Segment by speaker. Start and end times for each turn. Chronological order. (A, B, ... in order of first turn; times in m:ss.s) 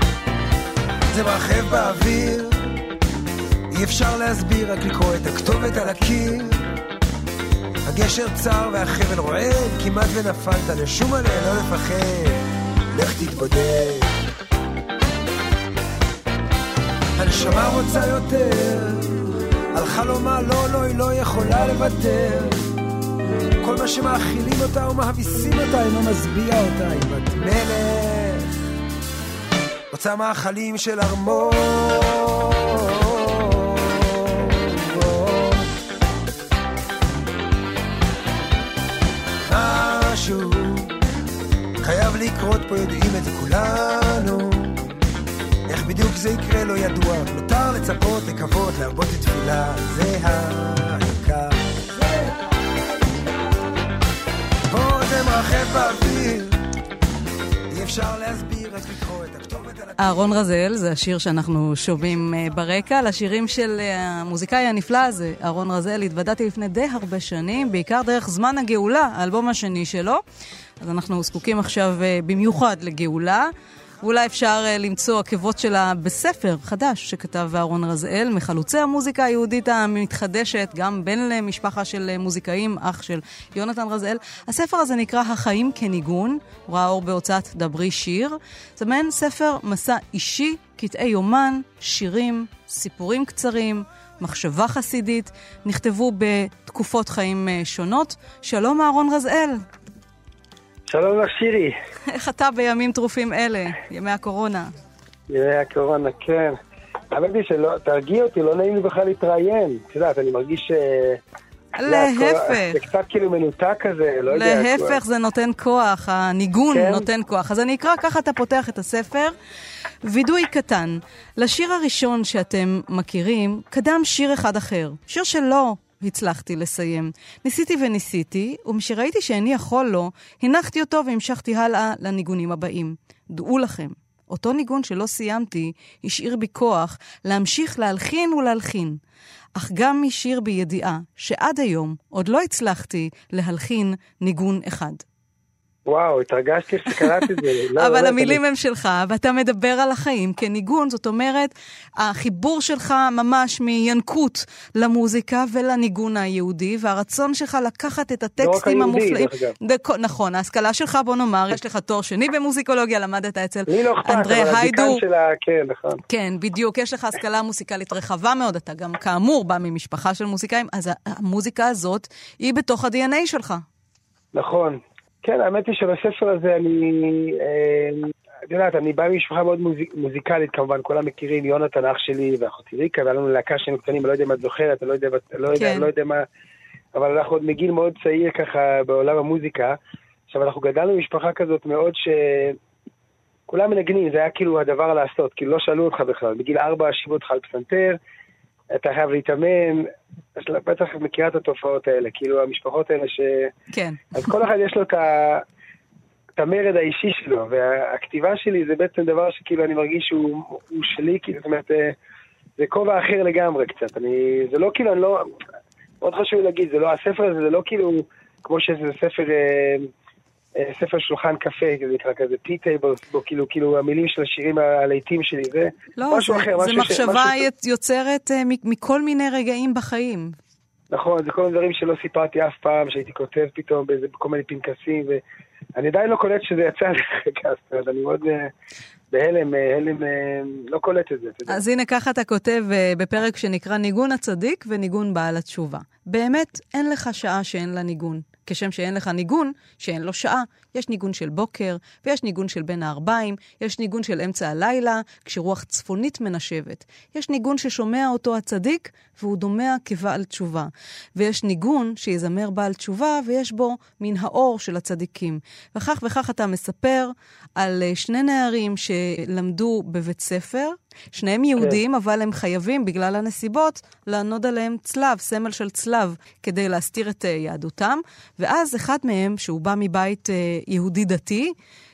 0:01.1-0:02.7 A
0:03.7-0:06.6 A
0:07.8-0:12.4 A
0:12.9-0:14.1 A
0:17.2-0:19.1 A
0:19.7-0:22.6 A
0:23.6-0:28.5 A
0:29.9-0:35.7 A
0:39.5-0:40.9 A
0:41.8-0:44.8 A
0:45.7-0:52.1 A
0:54.7-0:56.6 A
0:57.7-1:00.3 A
1:00.0-1:10.2 B
1:10.8-1:13.5 B
1:14.0-1:39.6 B
1:40.9-1:41.7 C
1:42.1-1:44.7 B
1:45.3-1:46.5 C
1:47.1-1:51.2 C
1:51.8-1:52.8 B
1:51.8-1:55.0 C
1:54.3-1:59.3 B
1:56.7-1:57.0 C
2:00.0-2:19.0 B
2:19.6-2:25.0 B
2:25.8-2:28.4 C
2:27.0-2:45.0 B
2:38.4-2:39.5 C
2:43.7-2:46.0 C
2:46.1-2:53.6 B
2:54.3-3:06.2 C
3:05.5-3:05.9 B
3:06.9-3:09.8 C
3:10.3-3:12.6 C
3:13.5-3:18.0 C
3:18.7-3:23.5 C
3:23.7-3:24.1 B
3:24.1-3:25.4 C
3:26.4-3:31.9 C
3:32.6-3:35.2 C
3:36.0-3:39.9 C
3:40.6-3:47.4 C
3:46.0-3:50.4 B
3:50.9-3:55.2 C
3:55.7-3:58.5 C
3:59.1-4:01.6 C
4:01.5-4:41.5 B